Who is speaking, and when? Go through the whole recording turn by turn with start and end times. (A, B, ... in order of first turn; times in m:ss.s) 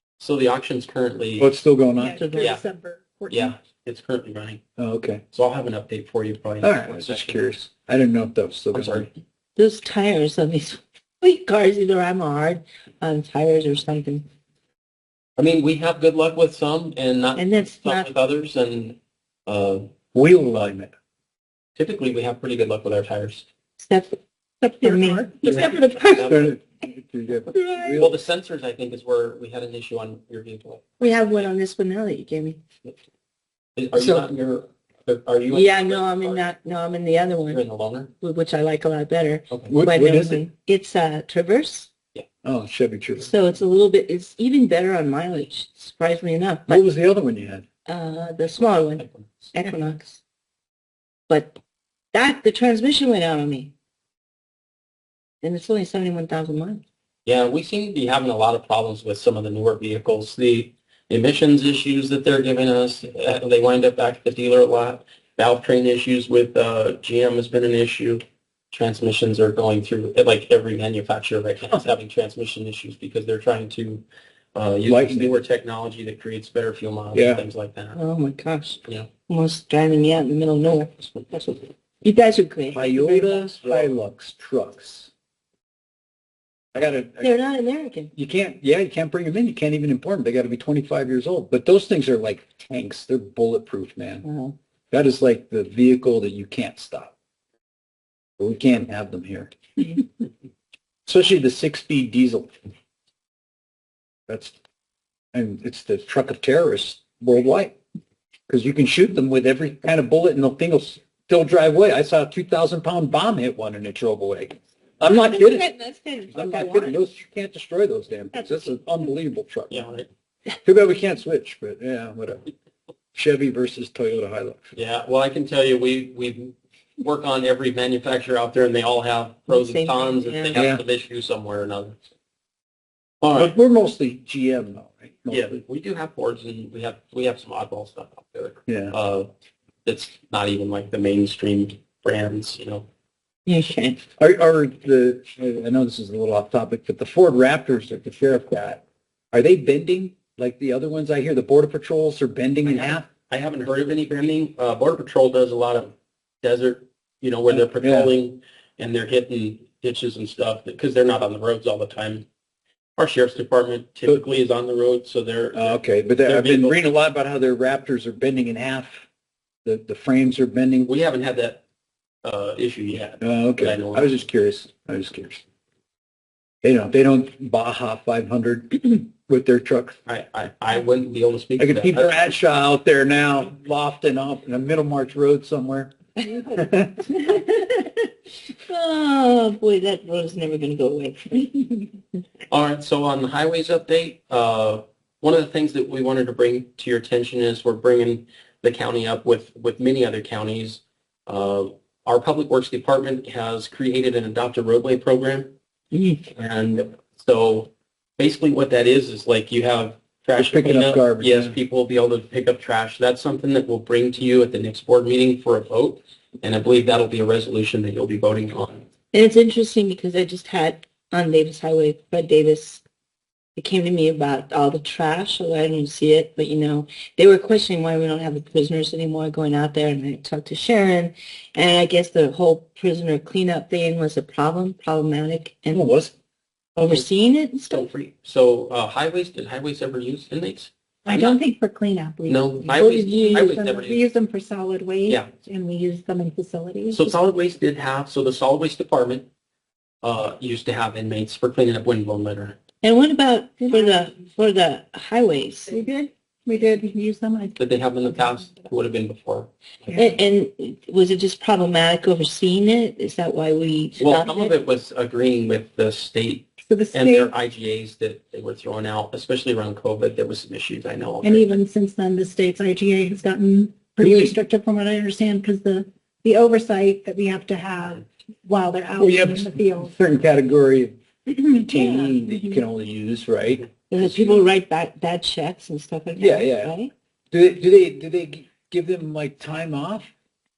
0:00.2-0:01.5 A
0:01.4-0:02.2 B
0:02.0-0:03.5 C
0:02.0-0:02.6 D
0:02.3-0:02.6 A
0:03.3-0:04.6 A
0:04.8-0:05.2 B
0:05.3-0:07.5 A
0:06.6-0:09.1 B
0:08.7-0:09.1 A
0:09.6-0:14.2 D
0:15.4-0:19.9 A
0:17.4-0:18.1 D
0:20.1-0:20.9 B
0:21.8-0:23.5 A
0:23.8-0:24.1 D
0:24.6-0:25.6 C
0:24.8-0:26.4 D
0:25.4-0:26.5 A
0:26.2-0:28.2 B
0:27.5-0:28.0 D
0:27.9-0:30.8 A
0:31.0-0:32.6 D
0:33.8-0:36.4 A
0:33.9-0:34.3 B
0:35.5-0:37.6 D
0:37.5-0:38.1 A
0:38.2-0:41.9 D
0:39.7-0:40.4 B
0:42.4-0:43.3 B
0:43.2-0:46.8 D
0:46.7-0:47.6 B
0:47.9-0:50.2 D
0:49.0-0:49.5 A
0:51.3-0:51.6 D
0:52.1-0:53.7 D
0:55.4-0:56.8 D
0:57.2-1:18.0 A
1:14.9-1:15.3 B
1:17.1-1:17.4 B
1:17.9-1:23.6 D
1:22.7-1:25.1 B
1:26.7-1:27.3 B
1:27.2-1:28.1 D
1:28.1-1:34.2 B
1:34.2-1:34.5 D
1:34.9-1:37.1 B
1:38.4-1:39.5 B
1:41.0-1:42.5 B
1:44.3-1:44.6 B
1:45.3-1:47.8 B
1:48.5-1:55.6 B
1:55.0-1:57.0 D
1:56.3-1:59.8 B
1:59.7-2:00.1 A
2:00.6-2:02.4 B
2:03.1-2:04.7 B
2:04.7-2:12.0 A
2:09.5-2:10.6 D
2:10.6-2:10.8 B
2:13.2-2:13.5 A
2:13.3-2:15.6 B
2:15.3-2:19.3 A
2:18.7-2:18.9 B
2:19.8-2:22.9 A
2:23.4-2:24.0 D
2:24.2-2:33.1 B
2:32.6-2:42.2 A
2:37.5-2:38.1 B
2:43.0-2:46.8 A
2:45.5-2:49.0 B
2:49.6-2:50.9 B
2:50.8-2:51.6 A
2:52.2-2:54.2 A
2:53.2-2:55.4 B
2:56.6-3:00.0 B
3:00.0-3:02.2 A
3:01.6-3:05.9 B
3:06.4-3:07.1 B
3:07.1-3:08.1 D
3:08.6-3:12.0 D
3:12.5-3:25.5 A
3:25.9-3:26.2 D
3:26.3-3:38.8 A
3:30.4-3:31.6 B
3:39.1-3:42.8 D
3:43.6-3:55.8 D
3:55.7-3:56.1 B
3:56.8-3:57.9 D
3:57.7-4:01.4 A
4:01.0-4:07.1 C
4:02.2-4:04.0 A
4:06.9-4:09.3 A
4:10.0-4:12.6 A
4:12.8-4:15.7 D
4:13.7-4:14.0 C
4:15.7-4:18.7 C
4:17.6-4:20.1 A
4:19.9-4:24.5 D
4:24.0-4:31.6 A
4:26.6-4:27.3 C
4:31.2-4:39.9 C
4:34.0-4:34.3 B
4:39.0-4:40.9 B
4:41.3-4:41.7 C
4:41.5-4:44.4 B
4:41.6-4:42.2 D
4:42.2-4:42.6 C
4:43.9-4:46.9 D
4:46.2-4:46.7 B
4:47.3-4:50.1 B